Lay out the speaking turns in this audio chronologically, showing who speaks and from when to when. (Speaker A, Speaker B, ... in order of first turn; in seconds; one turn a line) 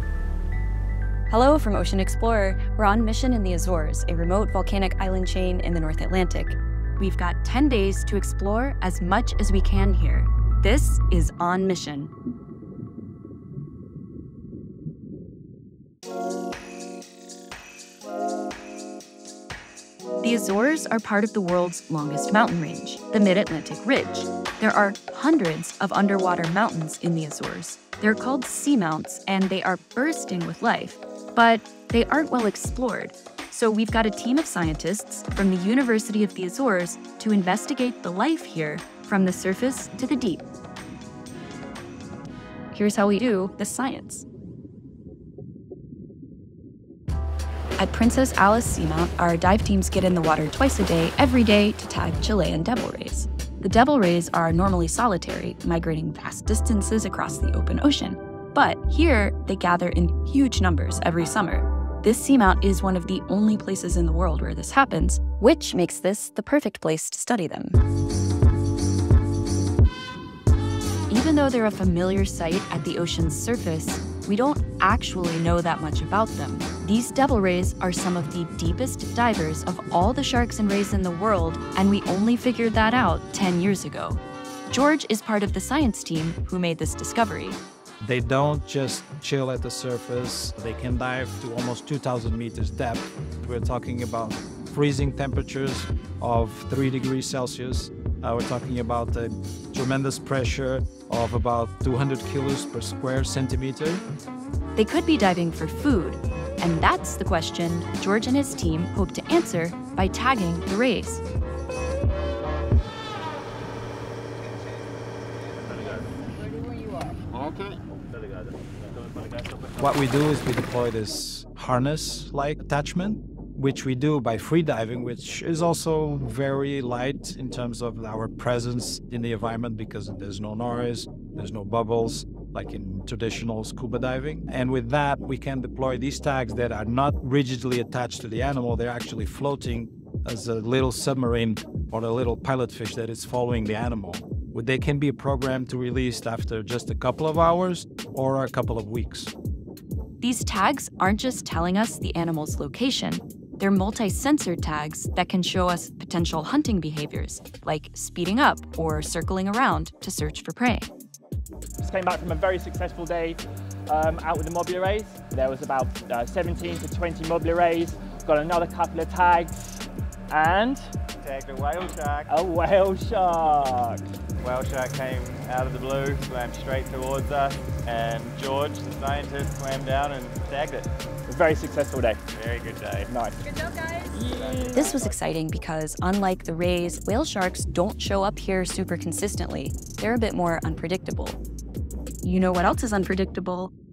Speaker A: 1.3-12.1
Speaker A: 20.2-40.5
Speaker A: 42.7-44.2
Speaker A: 47.8-67.8
Speaker A: 71.1-87.6
Speaker B: 88.0-104.0
Speaker A: 104.8-111.2
Speaker B: 119.8-149.3
Speaker A: 150.2-160.9
Speaker C: 161.8-170.9
Speaker D: 171.2-172.3
Speaker C: 172.3-174.1
Speaker D: 174.4-180.9
Speaker C: 181.3-182.2
Speaker D: 182.3-183.1
Speaker C: 183.0-185.0
Speaker D: 184.3-185.2
Speaker A: 184.7-191.4
Speaker A: 192.2-193.7